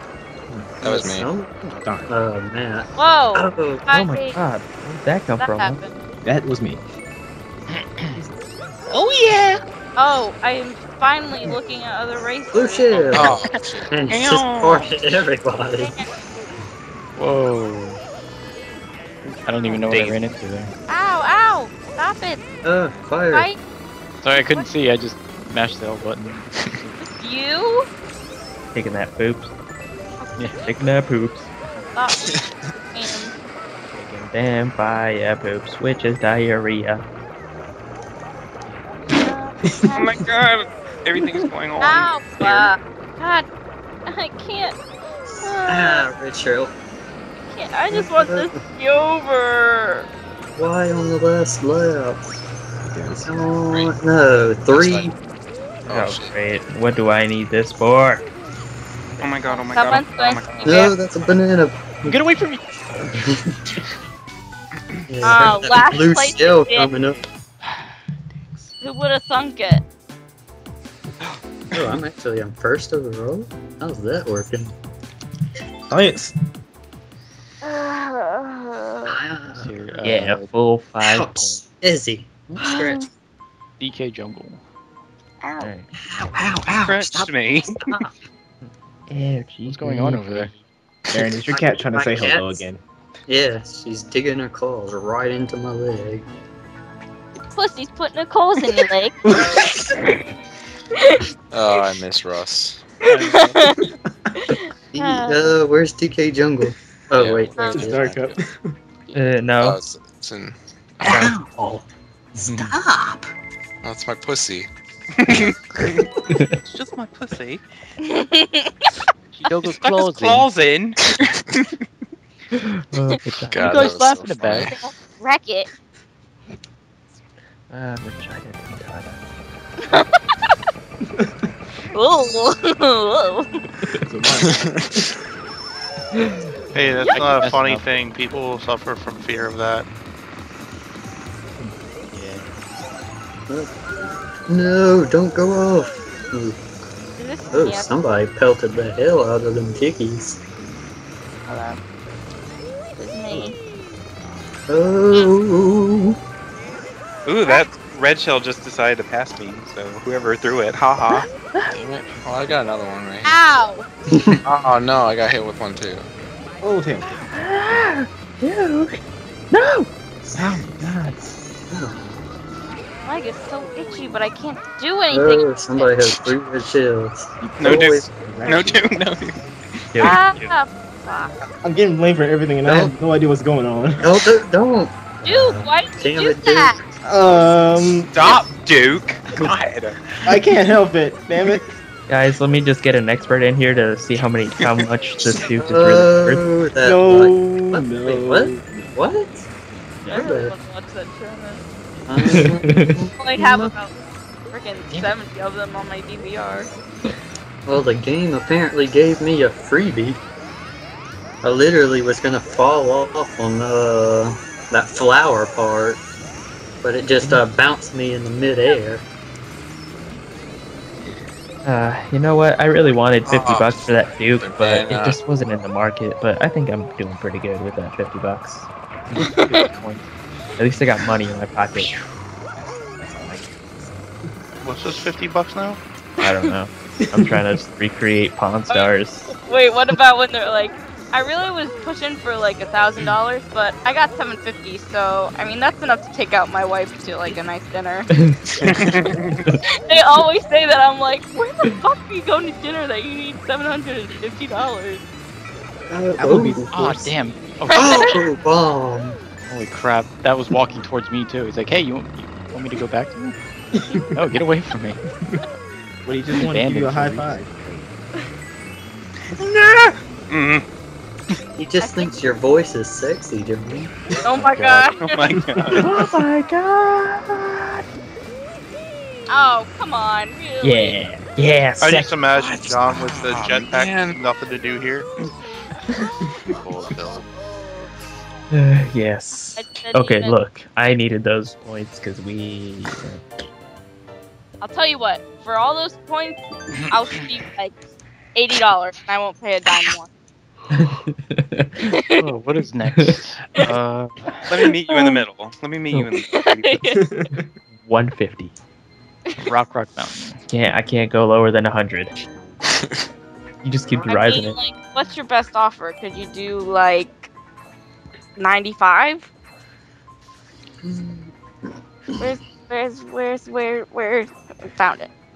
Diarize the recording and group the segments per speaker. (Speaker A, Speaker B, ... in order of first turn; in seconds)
Speaker A: 0.8-1.3, 12.9-13.9, 54.7-55.1, 55.9-56.4, 101.5-102.9, 107.2-108.4, 109.6-111.3, 113.8-114.7, 123.3-124.8, 161.8-163.4, 164.4-166.1, 223.2-225.2, 283.2-284.2, 286.5-287.3
Speaker B: 0.8-3.9, 12.5-16.0, 22.6-23.5, 45.7-46.7, 47.9-48.6, 50.6-52.2, 53.2-55.1, 60.6-62.2, 63.0-63.5, 65.1-67.2, 71.7-74.7, 79.1-80.0, 81.0-83.1, 86.0-87.3, 87.8-88.1, 91.5-92.7, 93.3-96.3, 105.0-108.2, 111.1-113.3, 143.5-143.8, 144.5-146.6, 147.5-150.4, 154.7-156.2, 171.7-172.2, 175.1-178.1, 182.7-182.9, 184.0-186.8, 195.4-199.4, 200.1-200.5, 202.1-203.7, 207.7-210.2, 211.4-216.0, 216.8-219.1, 255.9-256.7, 257.8-259.2, 271.6-274.3, 320.8-321.3
Speaker C: 1.8-2.1, 6.2-6.8, 52.8-53.5, 75.9-76.3, 91.1-92.8, 99.4-99.6, 107.7-108.7, 134.0-135.0, 166.6-167.9, 170.3-171.3, 177.4-179.0, 181.6-184.2, 187.0-188.1, 190.2-191.7, 196.8-198.7, 232.6-233.6, 237.1-237.5, 256.2-257.1, 263.8-264.1, 266.1-267.8, 306.9-307.5
Speaker D: 3.0-4.4, 5.4-6.0, 10.0-13.0, 15.8-16.1, 20.9-22.4, 24.3-24.7, 27.0-27.9, 30.2-30.8, 31.8-32.3, 32.8-33.3, 39.2-40.2, 41.8-43.5, 44.1-44.8, 45.4-46.1, 47.5-50.1, 59.5-61.0, 65.2-67.0, 68.8-69.8, 77.6-79.2, 82.6-83.0, 85.4-85.7, 97.5-99.2, 101.0-102.0, 103.0-103.9, 104.4-105.5, 107.5-107.9, 118.0-118.9, 124.6-125.7, 129.9-130.4, 131.9-133.5, 137.0-137.4, 147.2-148.0, 151.5-151.8, 153.0-153.6, 163.2-163.8, 173.1-176.2, 180.0-181.5, 185.2-186.8, 200.1-201.6, 203.2-203.9, 204.5-206.7, 236.2-236.5, 238.7-248.1, 249.7-255.0, 257.8-258.2, 271.8-272.2, 274.2-275.2, 279.3-281.1, 289.6-290.4, 294.6-297.7, 298.3-300.1, 301.9-302.2, 304.9-305.2, 306.2-307.0, 314.0-317.3, 318.4-319.3, 322.2-325.1
Speaker E: 3.9-5.8, 19.8-20.2, 28.7-29.5, 30.6-31.5, 33.9-37.0, 55.9-58.3, 80.0-81.6, 85.6-85.9, 88.7-90.6, 109.1-109.8, 116.3-116.6, 122.5-123.8, 127.7-129.2, 133.8-134.1, 136.2-137.0, 161.1-161.8, 167.2-169.0, 169.5-169.9, 179.9-180.5, 185.2-185.7, 192.1-196.4, 202.2-203.0, 217.2-217.4, 221.7-228.7, 230.6-231.9, 236.2-239.4, 248.1-249.6, 275.7-277.8, 280.6-283.0, 288.5-293.3, 300.7-302.0, 307.7-308.6, 310.5-312.1, 313.6-314.6
Speaker F: 13.1-15.2, 39.9-42.7, 59.2-61.0, 86.8-87.8, 115.2-115.9, 116.7-117.6, 119.7-121.7, 157.3-161.3, 177.6-179.4, 188.1-190.0, 248.6-249.4, 269.5-270.6, 275.0-275.9, 281.8-284.0, 304.5-306.8
Speaker G: 17.2-18.0, 19.4-20.7, 24.2-27.0, 62.0-62.6, 79.5-80.5, 83.8-84.6, 89.7-90.5, 112.4-112.8, 119.3-120.5, 123.5-124.7, 137.2-137.9, 142.1-142.5, 229.2-230.1, 256.7-258.1, 259.4-263.4, 264.1-265.0, 266.4-267.3, 302.2-304.4, 309.4-310.4
Speaker H: 136.7-139.9, 234.6-235.8, 282.0-285.1